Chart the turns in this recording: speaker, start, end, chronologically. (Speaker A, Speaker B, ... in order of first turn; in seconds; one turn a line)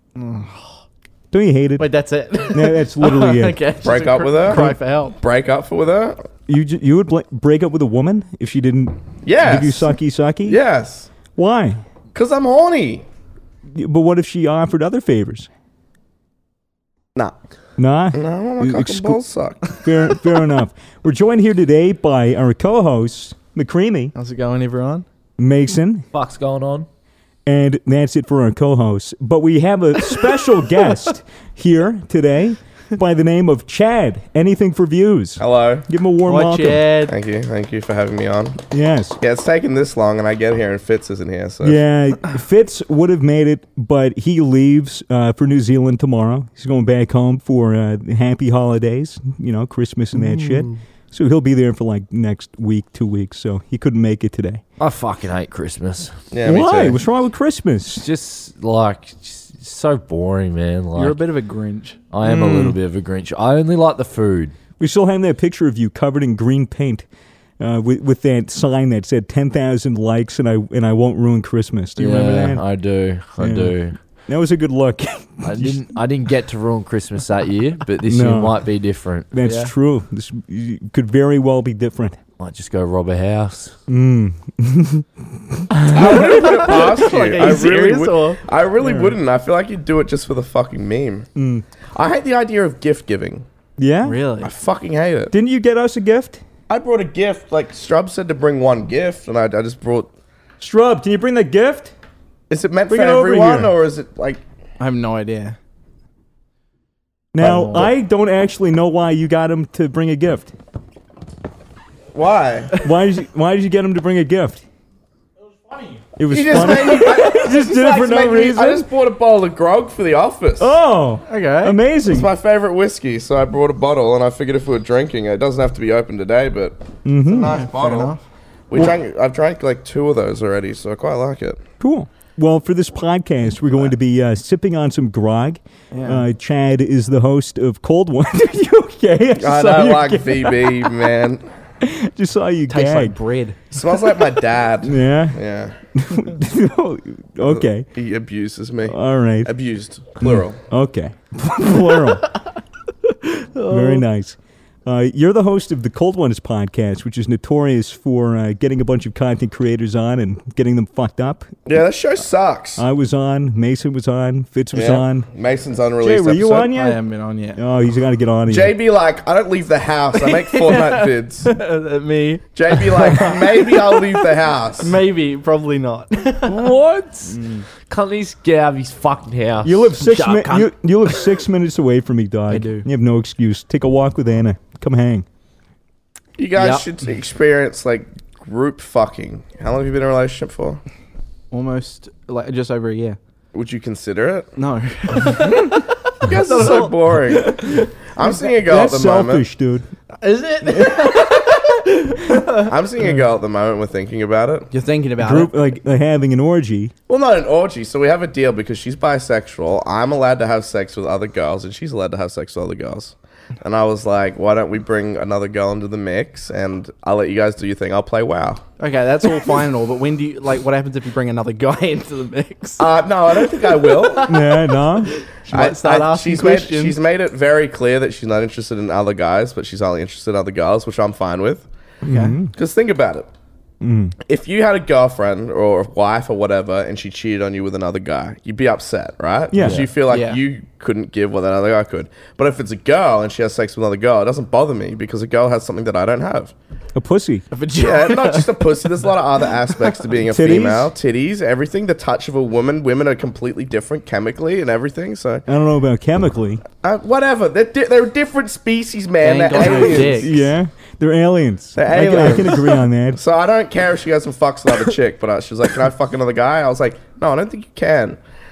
Speaker A: 0.2-0.8
Speaker B: 1.3-1.9
Speaker A: 1.8-5.2
Speaker B: 2.5-3.6
Speaker C: 3.8-6.3
Speaker B: 6.5-10.6
Speaker C: 9.2-9.9
Speaker C: 10.4-11.1
Speaker B: 11.4-11.8
Speaker C: 12.1-13.1
Speaker B: 13.7-15.5
Speaker B: 17.8-24.1
Speaker C: 18.1-19.7
Speaker A: 24.1-25.1
Speaker B: 25.4-26.1
Speaker D: 26.1-26.9
Speaker B: 27.5-36.9
Speaker C: 35.4-35.9
Speaker A: 36.3-37.1
Speaker C: 37.0-38.6
Speaker B: 38.7-39.2
Speaker C: 39.2-41.8
Speaker B: 41.6-54.6
Speaker D: 54.8-56.1
Speaker C: 56.3-57.0
Speaker B: 56.4-58.1
Speaker D: 58.0-61.2
Speaker A: 60.9-62.0
Speaker D: 62.1-64.5
Speaker B: 62.2-62.8
Speaker B: 64.8-67.0
Speaker B: 67.6-72.6
Speaker D: 72.0-74.0
Speaker B: 73.4-75.8
Speaker D: 75.4-79.7
Speaker B: 78.1-78.6
Speaker B: 79.3-82.2
Speaker D: 82.4-83.8
Speaker B: 83.9-85.7
Speaker C: 85.9-91.3
Speaker A: 86.0-88.4
Speaker B: 88.8-89.1
Speaker B: 91.4-91.6
Speaker C: 91.9-93.5
Speaker B: 93.8-94.2
Speaker A: 94.0-94.5
Speaker C: 94.4-95.3
Speaker B: 95.3-96.4
Speaker C: 96.7-100.1
Speaker B: 100.6-101.9
Speaker C: 102.5-104.4
Speaker B: 102.9-103.7
Speaker A: 104.8-105.6
Speaker B: 107.3-110.5
Speaker A: 107.4-107.9
Speaker C: 112.1-112.8
Speaker B: 112.8-114.6
Speaker B: 116.2-118.9
Speaker C: 116.3-120.7
Speaker B: 120.6-122.3
Speaker A: 121.3-121.8
Speaker C: 122.1-128.2
Speaker B: 127.0-127.6
Speaker A: 127.4-128.2
Speaker C: 128.7-131.6
Speaker B: 131.8-140.9
Speaker A: 135.9-136.2
Speaker C: 139.4-141.4
Speaker B: 141.8-143.2
Speaker A: 142.7-143.6
Speaker C: 143.7-145.8
Speaker B: 144.8-145.4
Speaker B: 145.9-147.9
Speaker C: 147.5-150.6
Speaker B: 148.9-149.5
Speaker B: 150.2-152.3
Speaker A: 153.1-154.1
Speaker B: 153.7-161.5
Speaker C: 161.7-162.8
Speaker B: 162.8-165.3
Speaker C: 164.7-166.7
Speaker B: 166.0-167.0
Speaker A: 166.7-167.6
Speaker B: 167.6-168.7
Speaker C: 168.5-171.5
Speaker A: 170.2-174.3
Speaker C: 172.6-174.9
Speaker A: 174.8-176.6
Speaker D: 176.5-177.4
Speaker A: 177.3-177.7
Speaker D: 177.9-180.3
Speaker B: 179.6-185.3
Speaker A: 180.1-180.7
Speaker A: 182.5-182.9
Speaker C: 186.4-190.8
Speaker A: 186.6-186.9
Speaker A: 191.5-193.2
Speaker C: 193.5-194.5
Speaker A: 194.6-197.9
Speaker C: 195.5-199.4
Speaker B: 198.6-199.9
Speaker A: 200.2-202.7
Speaker C: 202.6-204.7
Speaker A: 204.7-205.5
Speaker B: 205.2-206.9
Speaker C: 207.1-218.6
Speaker A: 218.8-227.0
Speaker C: 222.8-224.3
Speaker B: 224.2-225.2
Speaker C: 225.5-231.7
Speaker B: 232.0-232.5
Speaker A: 232.1-232.3
Speaker C: 232.5-233.3
Speaker B: 233.8-234.2
Speaker C: 234.2-246.5
Speaker B: 239.5-239.9
Speaker D: 239.6-239.9
Speaker A: 240.1-240.4
Speaker B: 246.9-247.4
Speaker A: 247.5-249.0
Speaker C: 247.7-255.4
Speaker A: 249.7-250.0
Speaker B: 250.3-250.9
Speaker B: 255.5-256.6
Speaker C: 256.8-260.3
Speaker A: 259.2-260.4
Speaker B: 259.9-263.2
Speaker C: 261.8-268.2